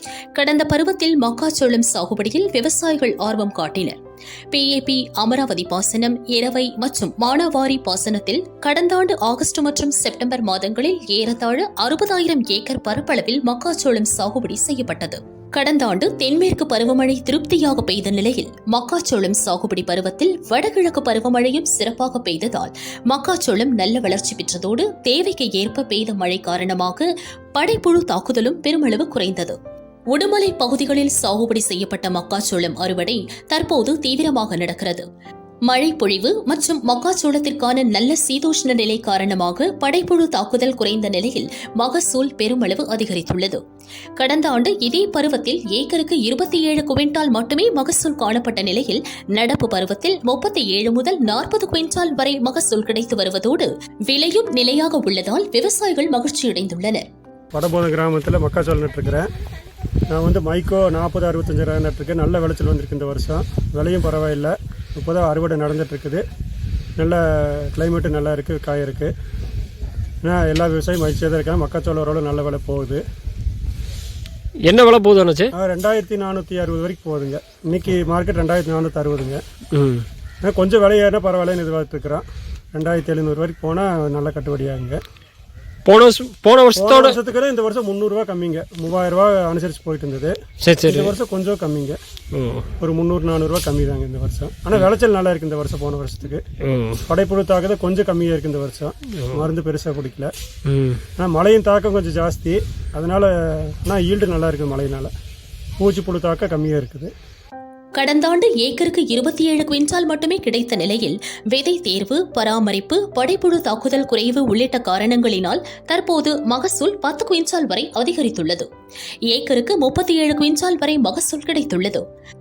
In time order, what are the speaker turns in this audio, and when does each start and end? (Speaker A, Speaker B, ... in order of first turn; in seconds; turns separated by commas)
Speaker A: 0.3-4.0, Speaker A: 4.5-29.6, Speaker A: 30.1-35.0, Speaker A: 35.7-43.6, Speaker A: 44.2-57.0, Speaker B: 57.5-59.3, Speaker B: 60.1-66.2, Speaker B: 67.0-69.1, Speaker B: 70.2-73.0, Speaker C: 74.6-75.5, Speaker B: 75.5-79.4, Speaker C: 79.7-80.0, Speaker B: 80.4-85.0, Speaker C: 85.8-87.2, Speaker B: 86.7-92.0, Speaker C: 90.6-91.1, Speaker C: 92.3-92.7, Speaker B: 92.8-96.4, Speaker C: 96.6-97.0, Speaker B: 97.1-100.3, Speaker C: 99.1-99.5, Speaker C: 100.7-101.0, Speaker B: 101.2-105.1, Speaker B: 105.8-107.1, Speaker A: 107.9-118.7, Speaker A: 119.3-122.0